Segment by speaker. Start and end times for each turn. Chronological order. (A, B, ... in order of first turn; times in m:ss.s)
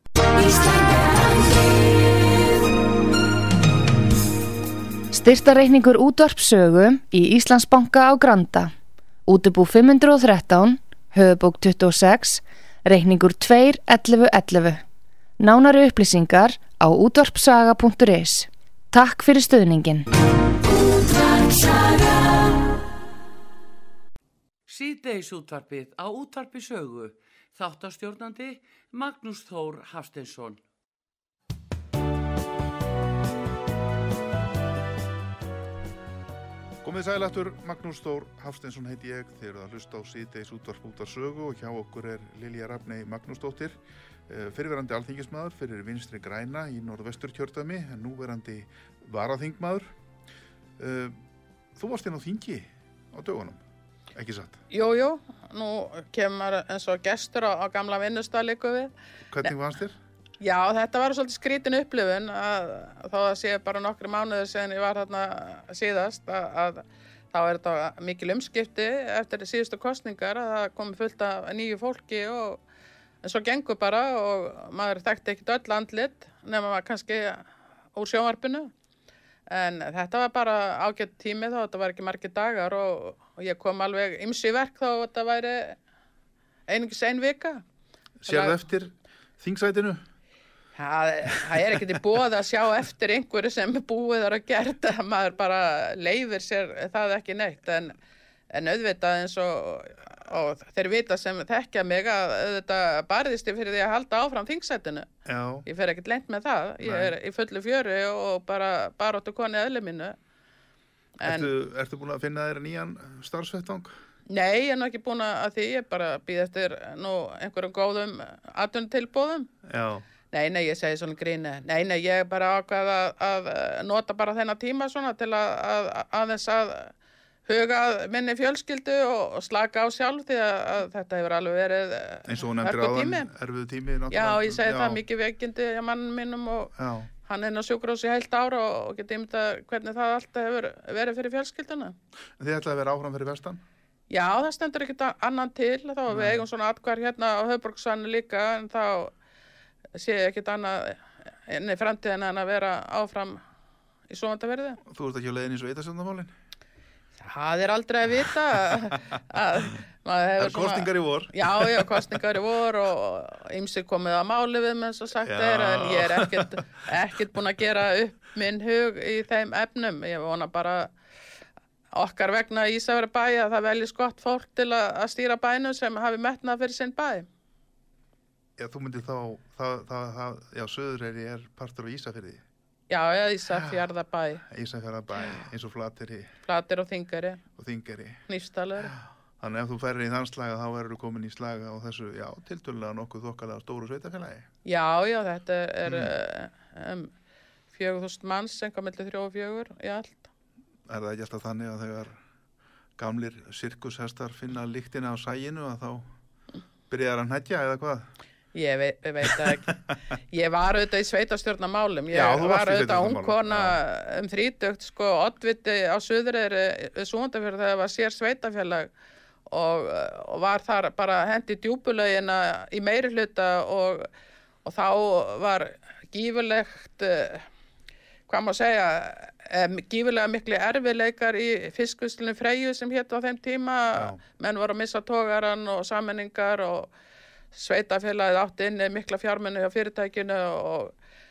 0:00.5-0:01.7 A
0:05.1-0:08.7 A
0:09.3-0:14.8 A
0:15.4-0:20.1 A
0:20.8-0:22.5 A
0:24.7-0:30.6 B
0:36.8-0:49.9 C
0:50.8-0:51.2 C
0:51.8-0:53.6 C
0:54.1-0:54.6 C
0:54.7-0:59.5 D
0:59.3-1:00.0 C
1:00.4-1:12.6 D
1:13.2-1:18.7 D
1:19.5-1:25.8 D
1:26.7-1:27.6 D
1:28.2-1:30.0 C
1:28.3-1:28.6 D
1:30.8-1:38.0 D
1:38.5-1:45.1 D
1:45.2-1:45.6 C
1:45.6-1:50.2 D
1:46.8-1:47.1 C
1:51.2-1:51.5 D
1:51.2-1:53.9 C
1:54.3-1:59.5 D
1:59.6-2:00.0 C
2:00.3-2:06.9 D
2:07.5-2:13.3 D
2:12.2-2:15.0 C
2:14.1-2:22.0 D
2:16.8-2:17.1 C
2:22.4-2:23.6 C
2:24.1-2:29.1 D
2:26.1-2:26.4 C
2:30.0-2:33.4 D
2:34.1-2:34.8 D
2:34.9-2:36.3 C
2:37.2-2:50.9 D
2:40.4-2:42.2 C
2:45.3-2:46.6 C
2:51.9-2:57.3 D
2:58.6-3:02.4 C
3:02.9-3:04.4 D
3:04.4-3:06.3 C
3:06.4-3:07.4 D
3:07.6-3:08.2 C
3:08.3-3:08.9 D
3:08.9-3:14.5 C
3:14.6-3:17.1 D
3:15.8-3:16.1 C
3:17.7-3:20.3 D
3:20.9-3:22.2 C
3:23.0-3:26.1 C
3:26.9-3:28.1 C
3:28.5-3:29.7 D
3:29.2-3:29.9 C
3:30.3-3:38.9 D
3:32.1-3:33.8 C
3:39.5-3:44.1 D
3:44.6-3:47.5 D
3:48.3-3:56.9 D
3:57.5-4:00.9 D